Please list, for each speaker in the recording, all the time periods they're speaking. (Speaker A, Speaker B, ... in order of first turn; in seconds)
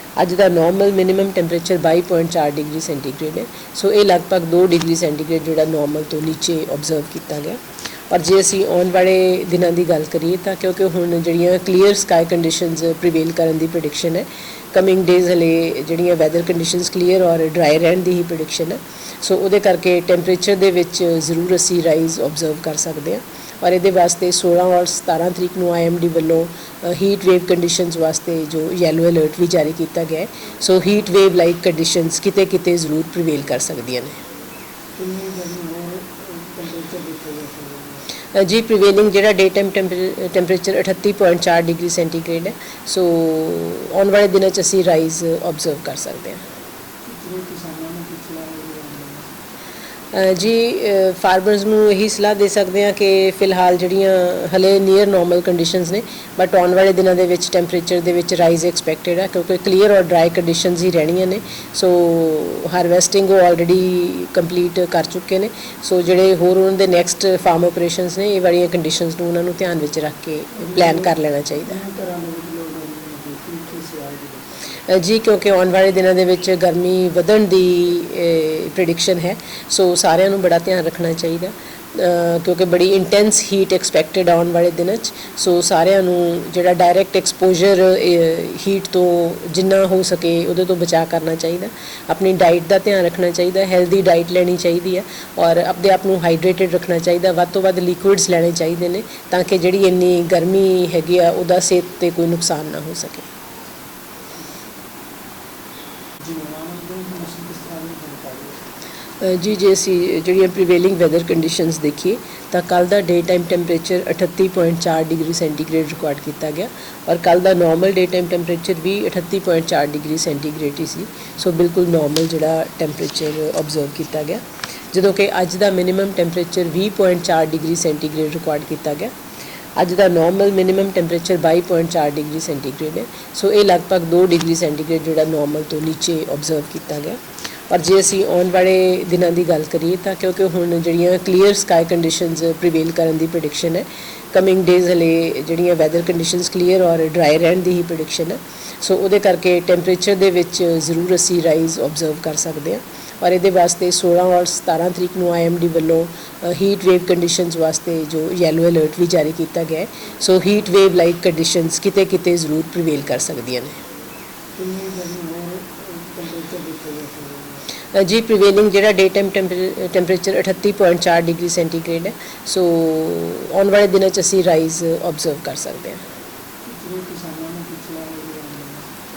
Speaker A: 0.2-7.6, 8.1-34.1, 38.3-46.4, 50.1-71.8, 74.9-103.3, 109.2-124.4, 124.9-129.1, 129.8-137.2, 137.7-163.7, 167.9-176.0
Speaker B: 35.0-38.1, 47.0-49.4, 70.5-74.8, 106.2-108.6, 164.6-167.6, 176.6-178.9